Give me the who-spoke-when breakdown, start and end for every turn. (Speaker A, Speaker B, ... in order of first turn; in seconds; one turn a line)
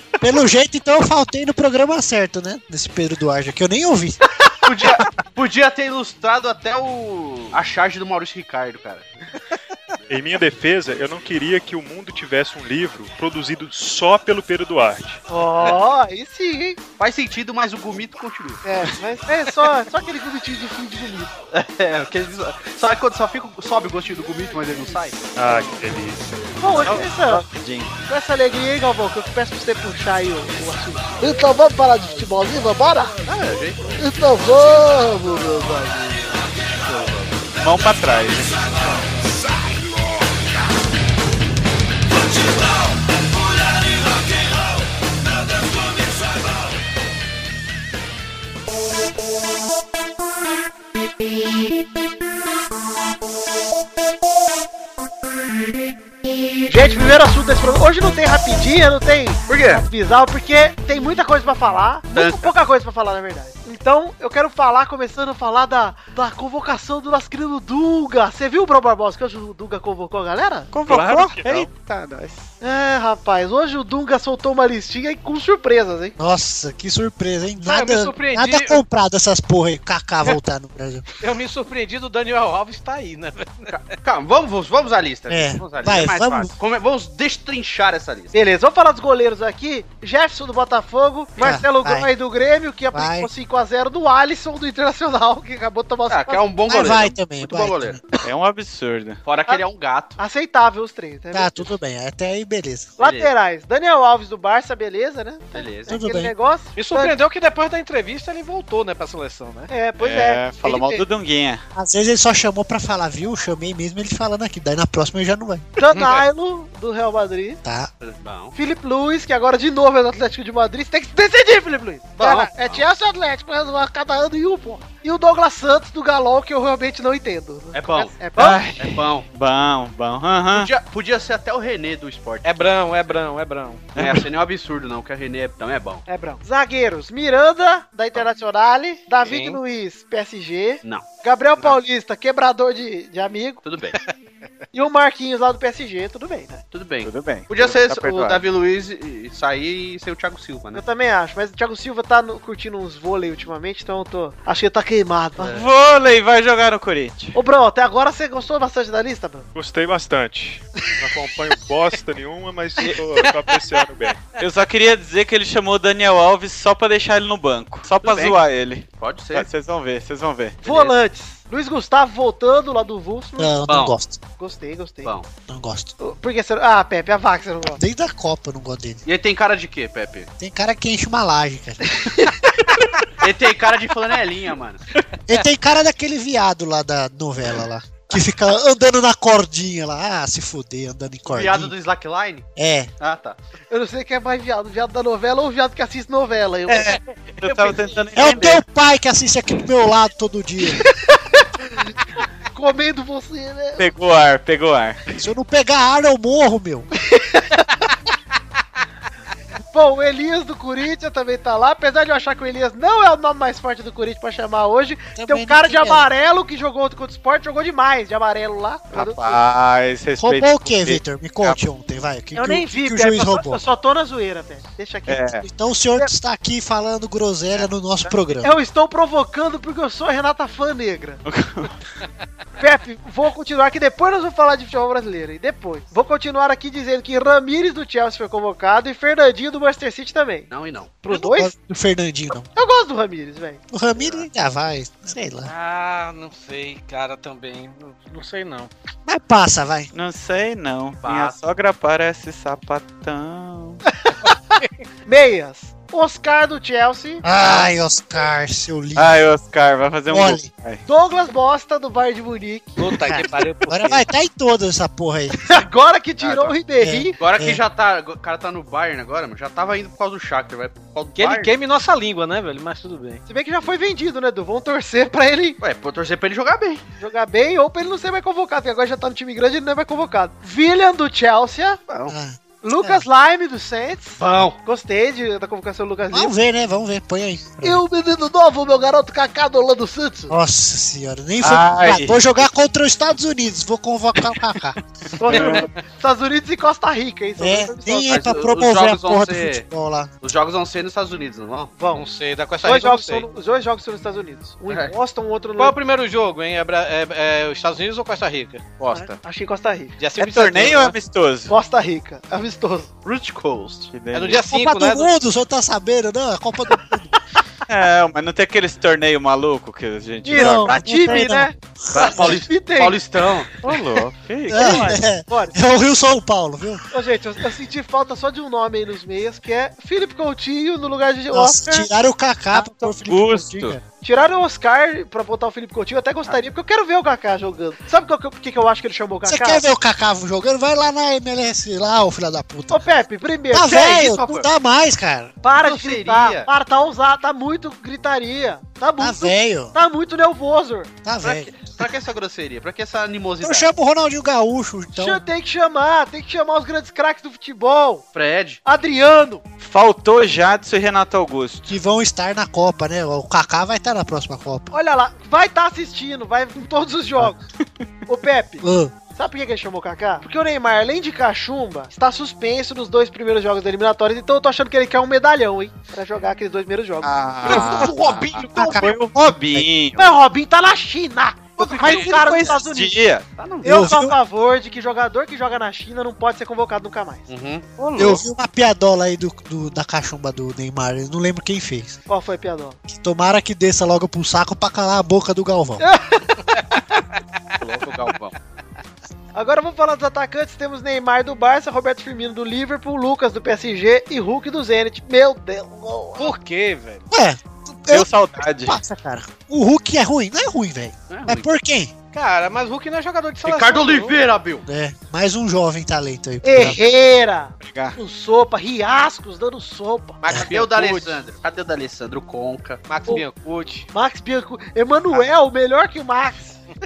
Speaker A: 0.2-4.2
Speaker B: 4.4-9.1
Speaker C: 10.1-15.2
Speaker D: 15.3-16.8
Speaker B: 17.0-18.6
Speaker D: 18.6-21.3
Speaker B: 21.5-25.3
Speaker C: 25.4-26.4
Speaker D: 26.6-27.4
Speaker E: 26.7-27.9
Speaker D: 28.1-31.1
Speaker F: 31.2-33.2
Speaker B: 33.2-34.0
Speaker F: 34.0-36.4
Speaker B: 36.8-37.4
Speaker E: 37.6-38.8
Speaker D: 56.7-70.7
Speaker B: 59.5-59.8
Speaker B: 62.1-62.5
Speaker E: 70.7-72.5
Speaker C: 70.9-71.7
Speaker D: 72.6-76.2
Speaker A: 76.2-81.0
Speaker G: 77.6-78.8
Speaker G: 81.2-84.0
Speaker B: 83.7-88.3
Speaker A: 85.3-86.5
Speaker D: 88.3-96.4
Speaker A: 91.4-92.1
Speaker A: 92.9-93.3
Speaker B: 96.1-98.0
Speaker A: 96.7-98.0
Speaker E: 98.2-99.2
Speaker B: 99.2-100.2
Speaker D: 100.2-101.7
Speaker A: 101.3-103.0
Speaker B: 103.0-103.3
Speaker D: 103.0-107.1
Speaker B: 105.5-105.9
Speaker A: 105.9-106.3
Speaker G: 106.8-109.7
Speaker D: 109.7-111.0
Speaker E: 110.0-111.6
Speaker A: 111.7-115.7
Speaker D: 115.8-117.6
Speaker G: 115.9-116.2
Speaker A: 117.6-117.9
Speaker B: 118.0-118.5
Speaker D: 118.5-128.6
Speaker B: 122.2-122.8
Speaker B: 127.7-128.2
Speaker E: 128.3-130.7
Speaker B: 128.8-129.2
Speaker B: 130.5-132.7
Speaker G: 132.4-133.9
Speaker E: 133.9-134.2
Speaker B: 133.9-136.0
Speaker D: 136.1-143.6
Speaker G: 139.2-139.6
Speaker B: 143.6-144.0
Speaker D: 144.7-146.6
Speaker B: 146.7-150.8
Speaker E: 147.0-148.4
Speaker D: 150.7-155.6
Speaker E: 155.4-157.3
Speaker D: 157.3-159.5
Speaker C: 159.5-164.2
Speaker E: 164.4-170.6
Speaker B: 168.0-168.4
Speaker B: 169.0-169.5
Speaker B: 170.6-170.9
Speaker D: 170.6-173.5
Speaker A: 173.4-174.2
Speaker B: 173.7-173.9
Speaker D: 174.4-175.1
Speaker A: 175.5-175.9
Speaker D: 176.0-177.8
Speaker A: 177.8-179.0
Speaker B: 179.1-180.3
Speaker A: 180.4-182.0
Speaker B: 183.2-184.8
Speaker A: 185.3-191.7
Speaker B: 191.2-192.4
Speaker A: 192.6-192.9
Speaker B: 193.0-193.4
Speaker D: 193.7-197.0
Speaker E: 196.7-198.6
Speaker B: 197.4-197.7
Speaker A: 198.2-200.8
Speaker D: 202.5-203.8
Speaker E: 203.8-205.2
Speaker A: 205.2-206.9
Speaker D: 209.7-219.4
Speaker A: 215.2-216.1
Speaker E: 218.9-221.6
Speaker A: 220.2-223.6
Speaker D: 222.3-225.3
Speaker E: 225.1-225.4
Speaker A: 225.4-228.5
Speaker E: 227.6-228.1
Speaker D: 228.4-231.2
Speaker E: 231.2-231.7
Speaker D: 232.6-240.5
Speaker B: 240.5-241.0
Speaker D: 241.0-241.5
Speaker A: 241.1-242.5
Speaker D: 242.5-243.6
Speaker A: 243.7-245.5
Speaker B: 243.9-244.2
Speaker G: 245.4-248.7
Speaker A: 249.1-249.9
Speaker E: 249.9-253.8
Speaker B: 251.0-251.4
Speaker D: 255.1-257.2
Speaker A: 257.2-259.2
Speaker E: 258.9-260.8
Speaker A: 260.1-260.5
Speaker D: 260.9-262.8
Speaker G: 262.8-264.0
Speaker A: 263.0-265.5
Speaker D: 265.4-267.1
Speaker B: 266.2-266.5
Speaker A: 266.8-267.6
Speaker B: 267.2-271.6
Speaker G: 271.1-273.2
Speaker D: 273.3-275.6
Speaker B: 275.6-276.8
Speaker D: 277.0-281.8
Speaker B: 281.9-282.1
Speaker A: 282.1-283.0
Speaker D: 282.6-286.3
Speaker B: 284.2-284.6
Speaker A: 286.1-287.8
Speaker F: 287.6-290.3
Speaker A: 290.3-294.8
Speaker E: 291.4-292.4
Speaker D: 295.2-298.3
Speaker A: 297.4-300.1
Speaker B: 298.1-299.6
Speaker B: 300.2-301.7
Speaker D: 301.7-302.1
Speaker G: 301.9-303.2
Speaker D: 302.6-305.8
Speaker G: 305.6-309.0
Speaker D: 308.9-309.9
Speaker G: 310.0-310.9
Speaker E: 310.2-311.5
Speaker D: 311.5-312.9
Speaker B: 313.0-313.9
Speaker E: 313.9-314.5
Speaker G: 314.1-315.1
Speaker A: 314.5-317.1
Speaker E: 317.7-320.8
Speaker D: 320.2-323.0
Speaker A: 320.3-322.4
Speaker B: 321.9-323.5
Speaker E: 323.6-324.9
Speaker D: 324.5-325.5
Speaker A: 324.5-326.8
Speaker D: 326.9-331.9
Speaker A: 331.3-333.8
Speaker E: 332.5-333.8
Speaker D: 334.0-339.6
Speaker A: 339.2-342.9
Speaker D: 342.7-344.2
Speaker A: 343.5-345.3
Speaker B: 343.6-344.5
Speaker D: 345.4-350.9
Speaker B: 345.6-346.5
Speaker A: 349.0-349.7
Speaker A: 351.0-351.5
Speaker B: 351.2-353.7
Speaker A: 353.4-355.2
Speaker D: 354.9-358.0
Speaker B: 358.1-358.6
Speaker D: 358.6-359.4
Speaker E: 359.6-361.7
Speaker A: 361.7-364.7
Speaker D: 364.7-367.4
Speaker D: 368.1-377.7
Speaker A: 368.6-368.9
Speaker E: 377.0-380.1
Speaker B: 377.4-378.9
Speaker A: 377.5-379.0
Speaker D: 380.0-383.0
Speaker B: 381.6-382.5
Speaker E: 381.8-383.2
Speaker B: 383.4-383.8
Speaker D: 383.6-387.3
Speaker A: 383.6-384.1
Speaker B: 387.3-387.8
Speaker A: 388.0-392.0
Speaker D: 392.1-392.8
Speaker A: 392.9-395.8
Speaker D: 395.8-396.4
Speaker B: 397.6-398.3
Speaker D: 399.3-406.3
Speaker G: 406.2-407.0
Speaker A: 407.1-408.1
Speaker E: 407.9-408.8
Speaker A: 408.6-411.9
Speaker B: 411.1-411.5
Speaker G: 412.1-414.2
Speaker B: 413.4-414.6
Speaker A: 414.6-416.8
Speaker D: 416.4-420.2
Speaker E: 417.6-417.9
Speaker G: 420.2-421.2
Speaker B: 420.5-422.8
Speaker G: 422.9-423.9
Speaker D: 423.9-426.6